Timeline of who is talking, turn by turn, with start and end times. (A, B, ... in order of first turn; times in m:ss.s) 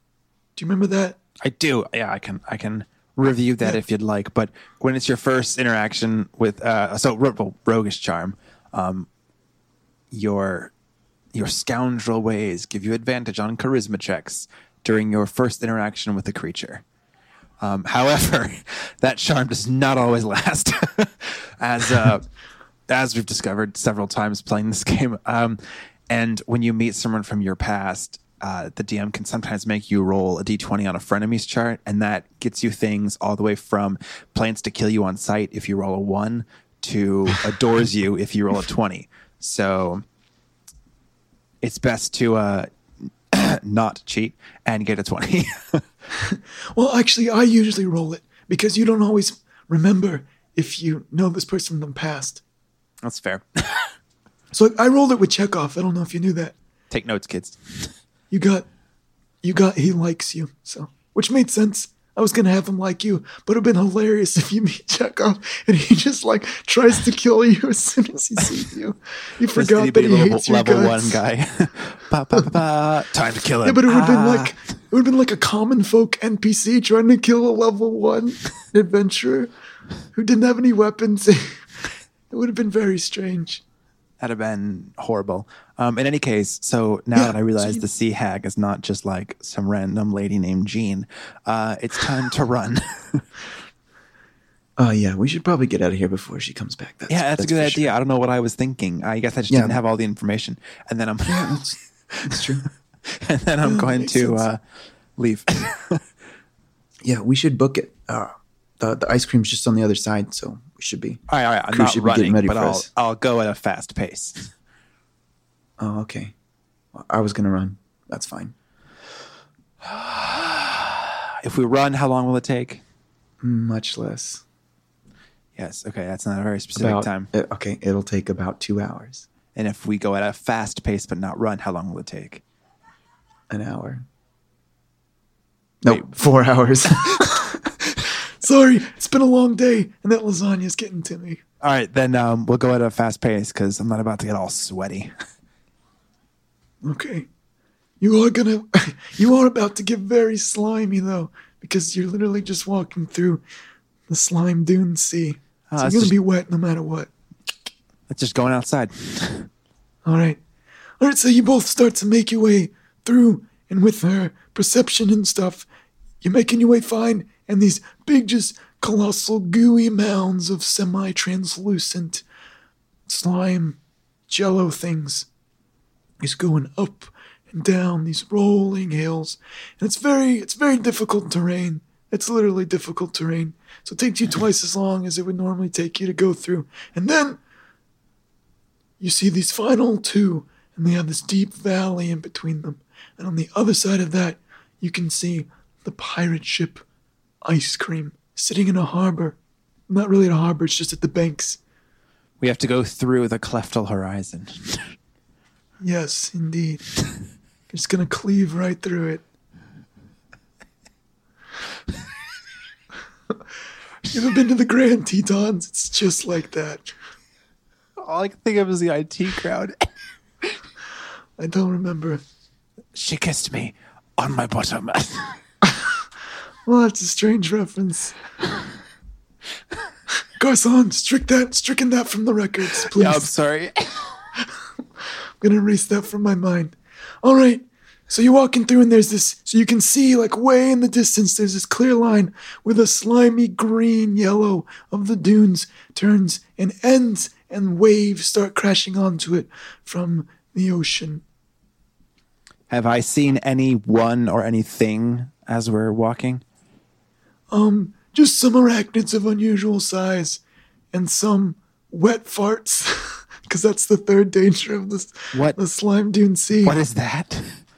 0:00.6-0:01.2 A
0:01.4-0:09.1 B
0:10.1-0:10.7 B
0:11.3-0:16.8 B
0:17.6-0:22.2 B
0:22.9-0:40.0 B
0:41.6-0:42.7 B
0:43.3-0:45.8 B
0:46.8-0:52.4 A
0:53.0-0:53.9 B
0:54.5-0:56.6 A
0:56.9-0:57.9 B
0:58.3-0:58.7 A
0:59.4-1:11.2 A
1:09.5-1:14.5 B
1:13.6-1:19.5 A
1:20.1-1:23.6 A
1:24.2-1:33.2 B
1:27.1-1:27.8 A
1:34.8-1:37.9 C
1:37.1-1:42.4 B
1:39.5-1:39.8 C
1:41.2-1:42.6 C
1:43.1-1:44.6 B
1:43.6-1:44.4 A
1:45.2-1:46.0 B
1:47.0-1:52.9 C
1:51.3-1:54.5 B
1:55.8-1:56.3 C
1:56.9-1:58.5 C
1:59.8-2:02.8 B
2:03.4-2:04.4 C
2:05.6-2:07.3 B
2:06.8-2:09.2 C
2:09.6-2:12.4 B
2:13.5-2:14.0 C
2:15.8-2:17.3 C
2:18.4-2:21.4 A
2:21.6-2:25.1 B
2:26.8-2:27.3 A
2:28.0-2:33.4 A
2:34.1-2:37.1 A
2:35.7-2:36.1 B
2:38.1-2:39.5 B
2:40.0-2:40.4 A
2:41.0-2:45.6 A
2:46.2-2:52.2 A
2:53.1-2:53.8 A
2:54.3-2:55.3 A
2:56.2-3:07.4 A
3:09.0-3:16.8 A
3:17.4-3:19.4 A
3:19.9-3:21.6 A
3:22.4-3:24.9 B
3:25.8-3:26.8 A
3:27.7-3:29.2 A
3:34.1-3:36.9 A
3:38.0-3:39.8 B
3:41.4-3:42.2 A
3:42.9-3:45.4 B
3:46.6-3:48.1 A
3:50.4-3:53.3 A
3:52.8-3:54.1 B
3:55.4-4:11.2 A
4:12.7-4:16.4 B
4:17.5-4:20.4 A
4:20.9-4:26.8 A
4:26.6-4:27.6 B